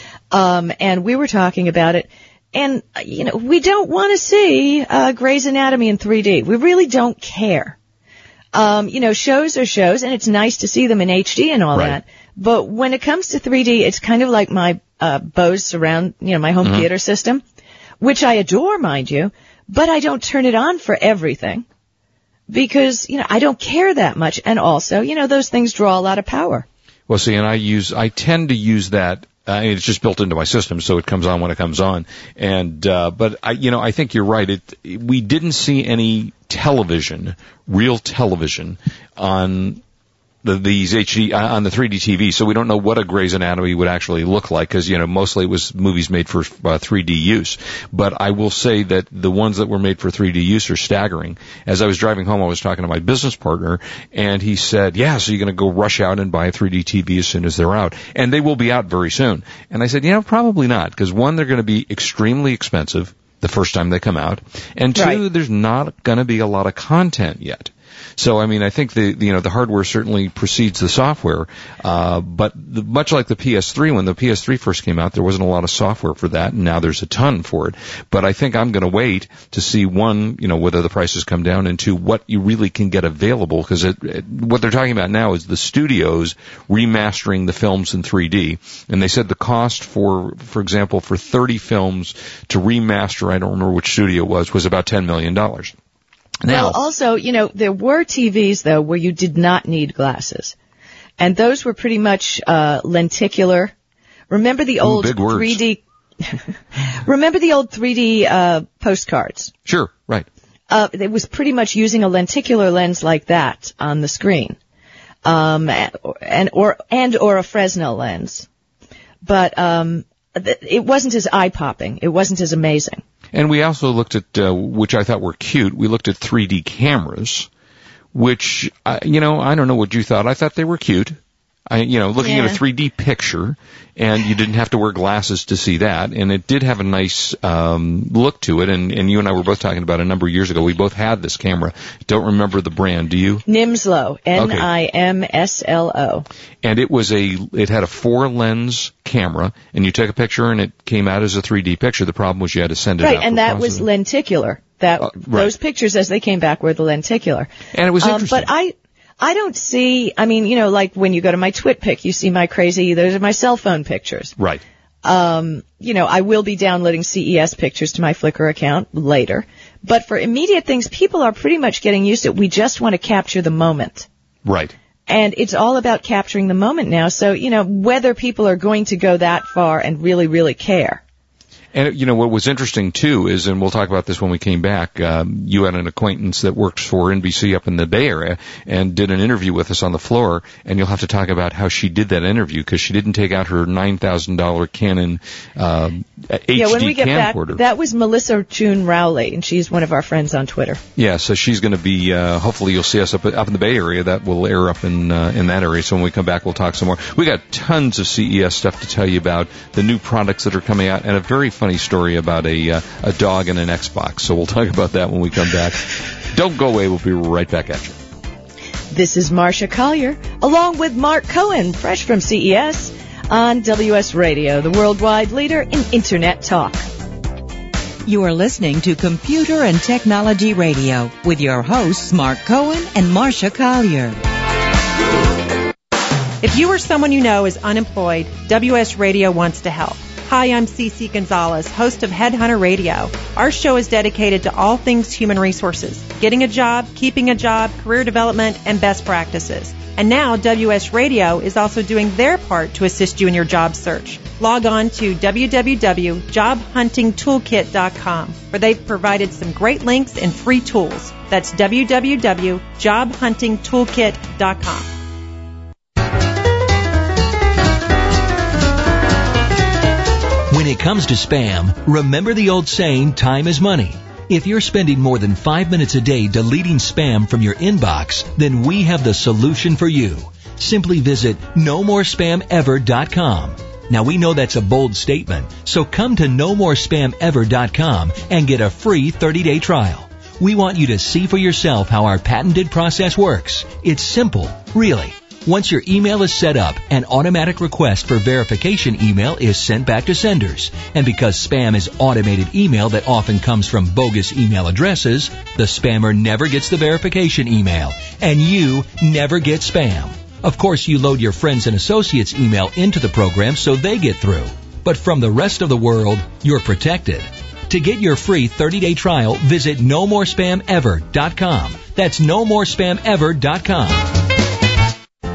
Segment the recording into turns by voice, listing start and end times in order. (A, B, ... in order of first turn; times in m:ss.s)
0:00.3-0:07.8 A
0:08.5-0:17.4 A
0:11.7-0:12.0 B
0:16.6-0:16.9 B
0:18.0-0:21.6 A
0:22.5-0:26.6 A
0:27.1-0:39.8 B
0:40.4-1:35.7 B
1:04.9-1:05.2 A
1:36.4-1:36.8 B
1:36.5-1:40.5 A
1:41.2-1:43.7 A
1:44.3-1:46.4 A
1:44.8-1:45.6 B
1:47.0-1:49.5 A
1:49.6-1:50.3 B
1:50.7-1:54.6 A
1:55.2-1:58.4 A
1:59.2-2:03.0 A
2:03.3-2:07.5 B
2:08.1-2:23.4 B
2:12.2-2:12.6 A
2:23.5-2:26.2 A
2:24.4-2:24.7 B
2:26.6-2:33.9 B
2:33.0-2:37.5 A
2:35.0-2:35.5 B
2:37.7-2:38.5 B
2:38.0-2:44.3 A
2:44.4-2:44.6 B
2:45.0-2:54.1 A
2:54.4-2:54.7 B
2:55.1-3:01.0 A
3:01.7-3:17.6 B
3:16.5-3:20.8 A
3:21.0-3:38.0 B
3:38.9-3:46.8 A
3:48.0-3:54.2 C
3:56.4-4:24.9 D
4:30.5-5:24.1 E